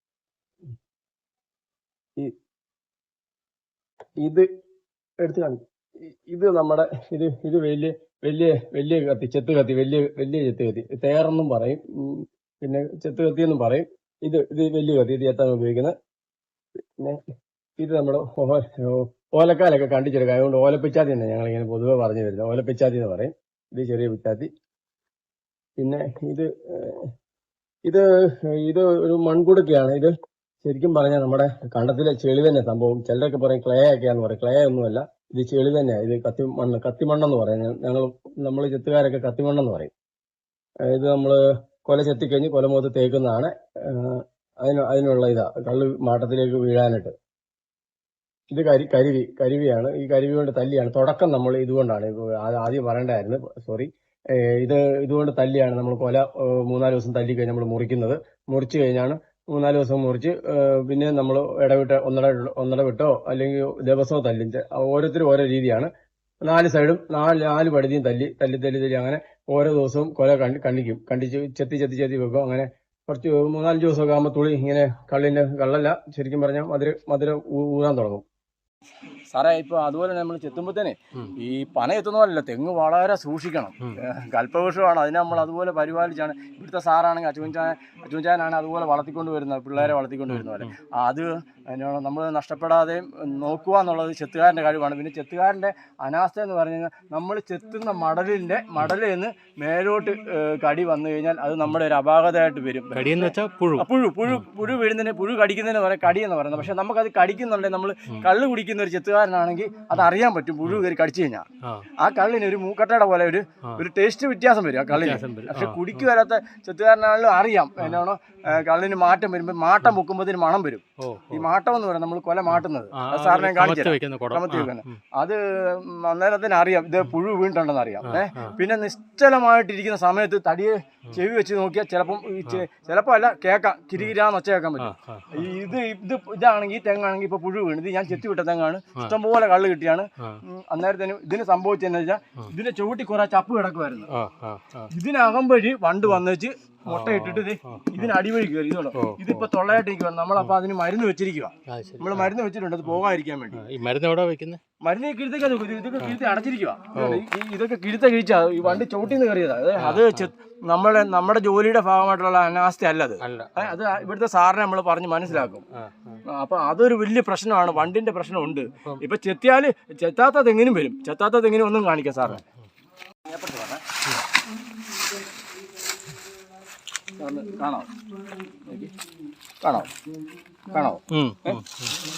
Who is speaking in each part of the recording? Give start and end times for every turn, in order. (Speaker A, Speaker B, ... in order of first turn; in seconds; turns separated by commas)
Speaker A: 4.2-4.5, Speaker A: 5.2-15.9, Speaker A: 17.8-24.5, Speaker A: 25.8-27.1, Speaker A: 27.9-39.9, Speaker A: 40.9-47.1, Speaker A: 48.5-65.9, Speaker A: 66.4-78.2, Speaker A: 79.3-111.5, Speaker B: 89.8-90.7, Speaker B: 102.9-104.5, Speaker A: 112.0-144.1, Speaker B: 114.9-116.0, Speaker B: 121.0-121.5, Speaker B: 122.5-125.0, Speaker B: 128.0-128.6, Speaker B: 134.8-135.5, Speaker B: 144.1-144.9, Speaker A: 144.9-153.6, Speaker B: 146.9-148.2, Speaker B: 148.9-149.8, Speaker B: 151.7-152.3, Speaker B: 153.5-154.6, Speaker A: 154.8-165.7, Speaker B: 156.9-157.3, Speaker B: 159.8-160.3, Speaker B: 163.2-163.8, Speaker B: 165.3-166.2, Speaker A: 166.2-172.5, Speaker A: 173.2-173.8, Speaker A: 177.2-177.9, Speaker A: 178.6-178.9, Speaker A: 179.6-179.9, Speaker A: 180.7-181.6, Speaker B: 181.1-181.9